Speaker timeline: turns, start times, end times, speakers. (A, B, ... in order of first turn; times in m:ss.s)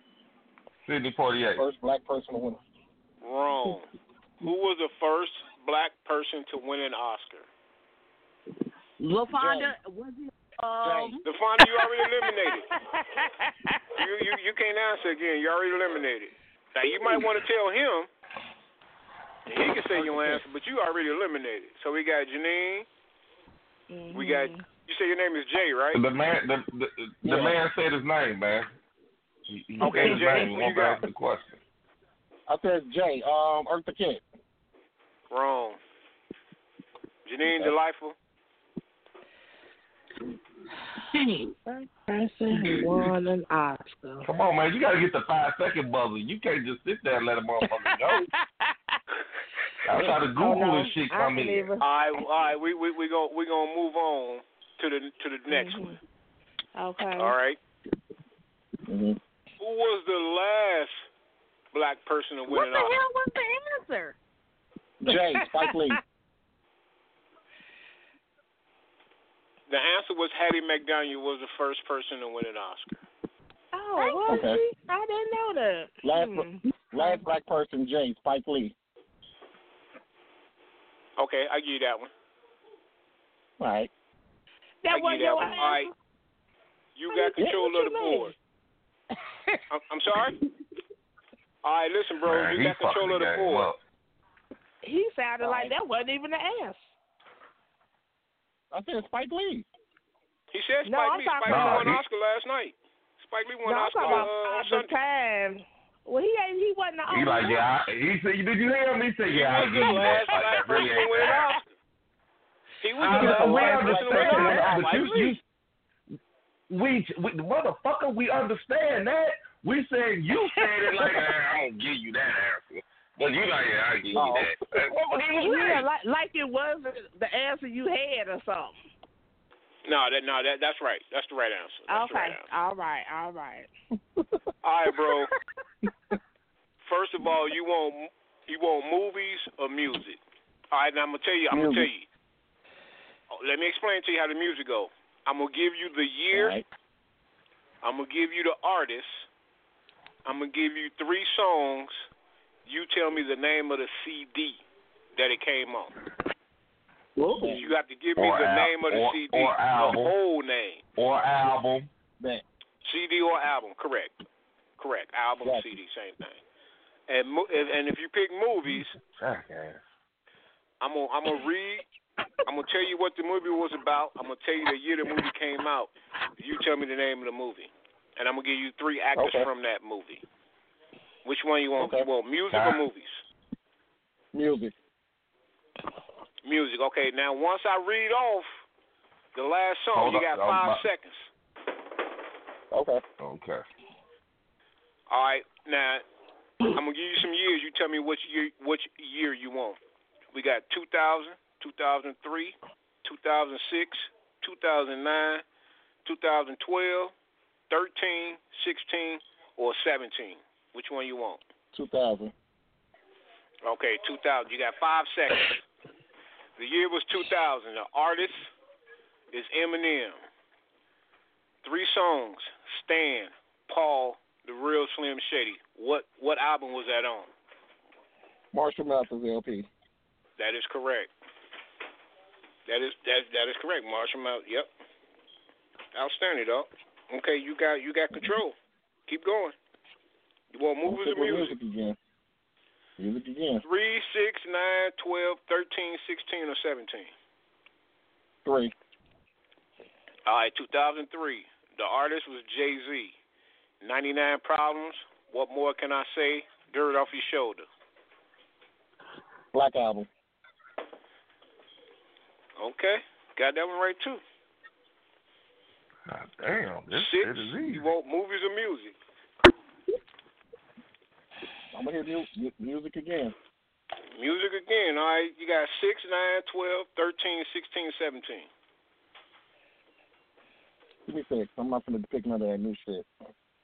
0:00.8-0:01.6 A
0:01.6-0:02.6 B
0:03.2-0:03.9 C
0:04.4-0:07.5 C
0:09.0-0:11.2 D
0:09.4-0:09.7 B
0:10.8-0:11.1 B
0:11.2-0:12.7 C
0:12.9-0:13.8 E
0:14.0-0:18.1 C
0:19.5-0:22.9 C
0:19.9-0:20.4 B
0:23.9-0:24.6 E
0:24.1-0:26.0 C
0:25.9-0:28.7 A
0:27.2-0:27.6 B
0:29.5-0:31.6 A
0:29.8-0:31.0 C
0:32.5-0:34.2 B
0:35.3-0:35.8 C
0:37.3-0:38.2 C
0:37.4-0:37.7 A
0:41.2-0:41.5 D
0:41.6-0:44.3 E
0:44.2-0:48.3 A
0:47.8-0:48.4 E
0:49.8-0:51.7 A
0:50.4-0:51.8 E
0:51.8-0:56.0 C
0:55.5-0:56.0 E
0:56.8-0:57.4 E
0:57.2-0:57.6 C
0:58.9-0:59.2 B
0:59.6-1:00.9 C
1:01.7-1:03.0 C
1:02.5-1:04.2 D
1:05.0-1:06.0 B
1:09.7-1:13.0 C
1:13.7-1:17.2 E
1:14.0-1:14.4 D
1:14.3-1:14.6 B
1:16.0-1:18.8 B
1:21.2-1:22.1 C
1:23.6-1:23.9 B
1:24.8-1:25.9 E
1:24.9-1:25.9 C
1:27.0-1:28.3 C
1:27.4-1:28.3 E
1:29.7-1:30.4 C
1:31.6-1:33.7 C
1:32.2-1:33.8 A
1:34.8-1:36.9 E
1:35.4-1:35.7 B
1:38.7-1:39.7 B
1:40.5-1:45.0 C
1:40.9-1:42.0 E
1:41.5-1:42.0 A
1:43.7-1:47.6 E
1:44.0-1:44.3 A
1:47.1-1:51.5 A
1:49.3-1:51.7 C
1:52.8-1:55.4 C
1:53.0-1:55.4 A
1:53.0-1:55.1 B
1:56.7-2:05.9 A
2:04.1-2:04.5 B
2:05.4-2:08.8 E
2:09.9-2:12.4 C
2:11.9-2:13.7 E
2:14.6-2:15.3 C
2:16.8-2:20.2 C
2:20.7-2:22.1 C
2:21.5-2:21.9 B
2:23.3-2:26.6 C
2:26.3-2:26.6 B
2:27.8-2:29.3 C
2:30.2-2:32.0 C
2:32.7-2:34.6 C
2:35.2-2:36.0 C
2:37.2-2:37.6 D
2:37.4-2:37.6 B
2:37.5-2:40.8 C
2:38.2-2:40.2 A
2:41.0-2:41.9 A
2:42.8-2:44.2 C
2:44.8-2:46.4 C
2:45.4-2:45.7 B
2:47.1-2:49.0 C
2:49.2-2:49.8 A
2:50.8-2:51.8 C
2:52.5-3:00.2 C
2:59.2-2:59.5 B
3:01.2-3:03.2 C
3:01.8-3:02.1 B
3:02.5-3:02.8 A
3:04.3-3:04.7 B
3:06.4-3:08.5 C
3:09.4-3:11.3 C
3:09.9-3:10.8 A
3:12.7-3:13.0 B
3:13.2-3:13.6 A
3:15.1-3:16.0 C
3:16.7-3:19.8 C
3:20.3-3:25.4 C
3:26.0-3:27.1 C
3:27.7-3:31.4 C
3:31.7-3:32.3 B
3:33.6-3:35.6 C
3:36.6-3:38.5 C
3:39.3-3:40.2 C
3:41.6-3:47.3 C
3:48.5-3:49.7 B
3:50.4-3:51.1 C
3:52.7-3:54.7 C
3:55.9-3:58.6 C
3:59.1-3:59.5 C
4:00.5-4:01.6 C
4:00.8-4:02.0 B
4:03.0-4:03.6 B
4:03.6-4:07.1 C
4:08.4-4:08.7 B
4:10.3-4:13.2 C
4:13.8-4:17.7 C
4:19.5-4:20.1 B
4:22.6-4:24.2 C
4:26.1-4:27.9 A
4:26.9-4:29.0 C
4:31.7-4:33.4 B
4:34.2-4:38.5 C
4:41.1-4:43.1 B